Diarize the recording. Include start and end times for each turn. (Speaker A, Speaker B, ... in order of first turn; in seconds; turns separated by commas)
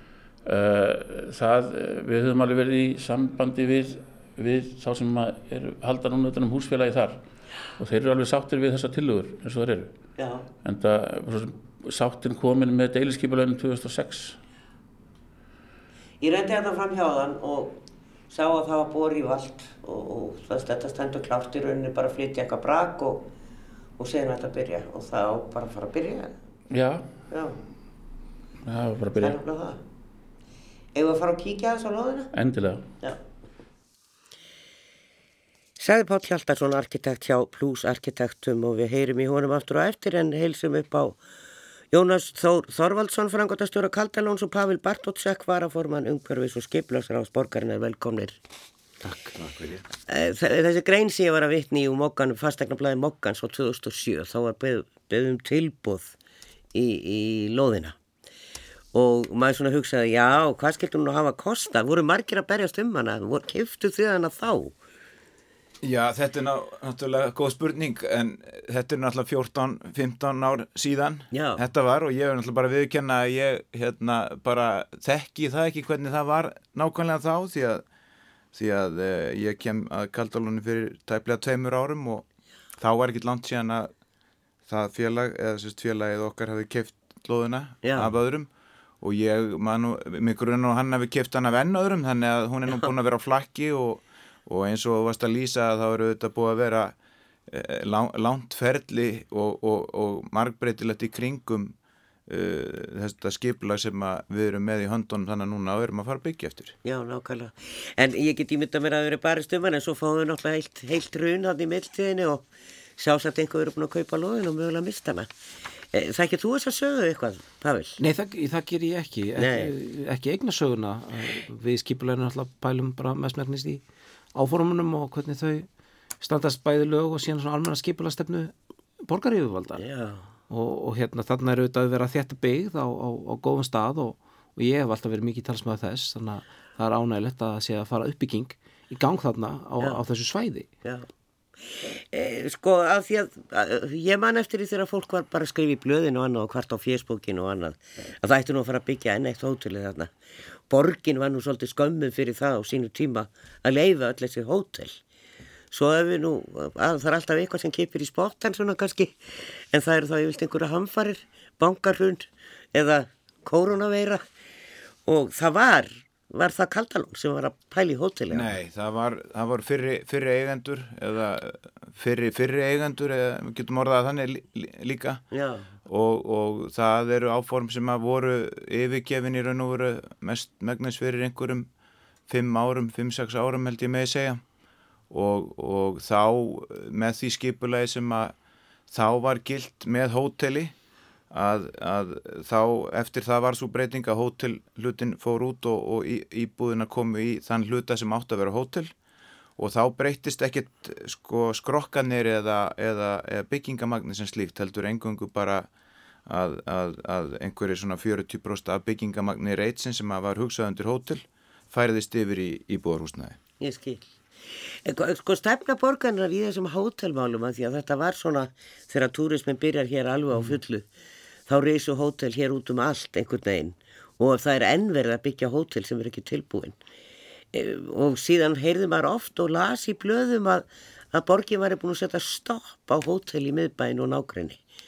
Speaker A: 0.5-7.2, Speaker A: 7.8-9.9, Speaker B: 10.2-10.4, Speaker A: 10.6-14.4, Speaker B: 16.2-17.8, Speaker B: 18.3-23.3, Speaker B: 24.0-26.4, Speaker A: 26.7-27.1, Speaker B: 27.3-27.6, Speaker A: 28.6-29.4, Speaker B: 29.2-29.8, Speaker B: 30.9-32.3, Speaker A: 32.3-32.9, Speaker B: 35.8-41.2, Speaker B: 41.9-48.4, Speaker C: 49.1-49.8, Speaker B: 50.0-56.1, Speaker B: 56.7-58.0, Speaker B: 58.9-64.8, Speaker C: 65.8-77.8, Speaker B: 71.3-71.6, Speaker C: 78.5-82.2, Speaker C: 82.8-83.9, Speaker C: 84.7-88.5, Speaker B: 87.8-88.1, Speaker C: 89.0-97.0, Speaker C: 97.5-101.8, Speaker C: 102.3-106.8, Speaker B: 106.8-112.5, Speaker B: 113.0-115.3, Speaker B: 115.9-118.0, Speaker D: 118.0-123.8, Speaker B: 119.4-119.7, Speaker D: 124.3-125.7, Speaker D: 126.2-129.8, Speaker B: 129.8-130.3, Speaker D: 130.5-140.7, Speaker B: 141.6-150.1, Speaker B: 150.7-155.0, Speaker B: 155.7-164.2, Speaker B: 165.1-168.5, Speaker C: 168.3-175.2, Speaker B: 175.3-175.7, Speaker C: 175.8-181.7, Speaker C: 182.3-184.4, Speaker C: 185.1-188.3, Speaker C: 188.9-190.7, Speaker C: 191.3-198.9, Speaker C: 199.6-205.7, Speaker C: 206.3-213.4, Speaker B: 213.6-220.9, Speaker B: 221.5-226.8, Speaker B: 227.5-234.6